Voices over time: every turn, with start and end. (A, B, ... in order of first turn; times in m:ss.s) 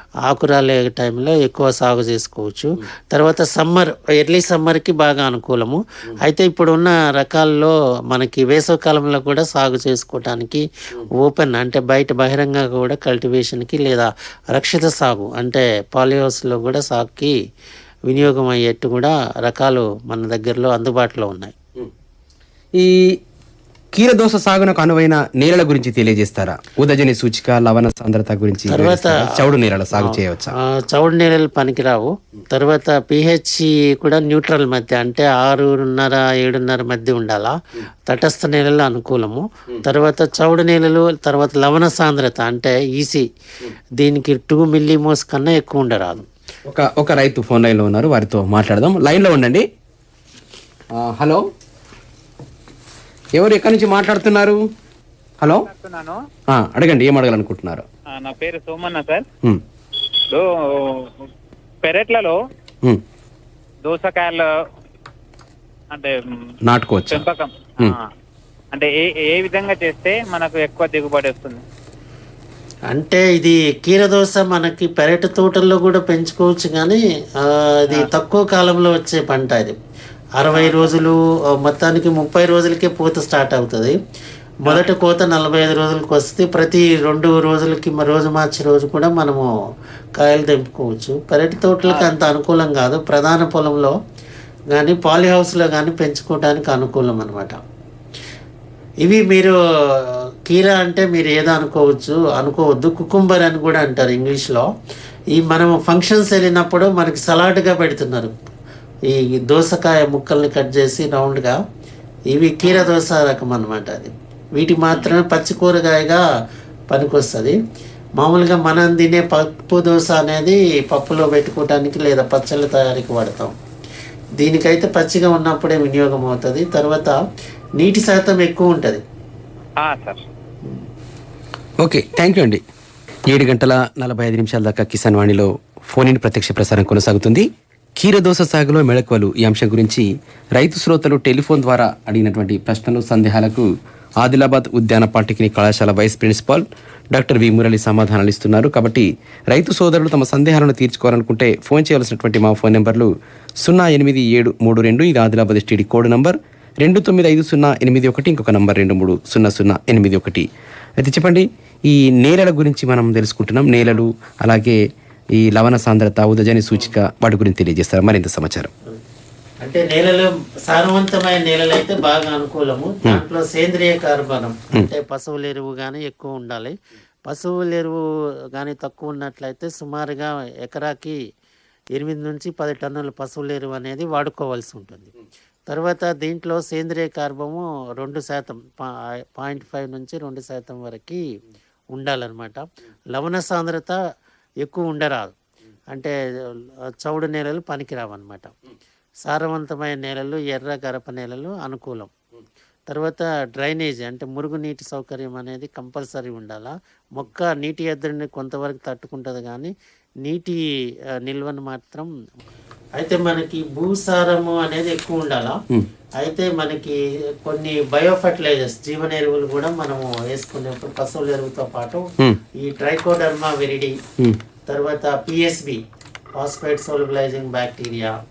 0:00.2-0:17.4 A
0:18.1-0:21.5 A
0:22.8-0:23.2 B
0:23.9-0:30.5 B
0:28.7-0:43.2 A
0:44.0-0:46.2 A
0:46.7-0:49.6 B
0:51.0-0:51.4 B
0:53.3-0:54.6 B
0:55.4-0:55.7 B
0:55.5-0:56.2 C
0:56.5-0:57.8 B
0:58.2-0:59.2 C
1:00.3-1:01.2 C
1:01.8-1:02.4 C
1:03.8-1:04.5 C
1:05.9-1:06.2 C
1:06.7-1:07.2 B
1:07.1-1:08.1 C
1:08.7-1:11.6 C
1:12.9-1:19.8 A
1:20.4-1:24.0 A
1:20.5-1:20.9 C
1:24.6-1:29.5 A
1:30.2-1:34.0 A
1:31.9-1:32.1 C
1:34.7-1:37.6 A
1:39.0-1:44.7 A
1:45.3-1:48.3 A
1:49.1-1:51.6 A
1:52.3-1:56.2 A
1:56.9-1:57.6 A
1:58.2-2:03.5 A
2:04.4-2:07.2 A
2:07.8-2:09.0 A
2:09.8-2:10.2 C
2:11.8-2:12.6 B
2:13.3-2:17.4 B
2:18.0-2:23.7 B
2:24.2-2:33.1 B
2:33.6-2:40.4 B
2:41.0-2:44.8 B
2:45.3-2:48.7 B
2:49.6-3:01.2 A
3:01.9-3:05.1 A
3:05.7-3:11.2 A
3:11.9-3:14.0 A
3:14.6-3:15.3 A
3:15.9-3:18.5 A
3:19.2-3:22.1 A
3:22.9-3:30.6 A
3:31.1-3:32.2 A
3:33.0-3:35.6 A
3:36.2-3:44.0 A
3:44.7-3:45.8 A
3:46.3-3:48.2 A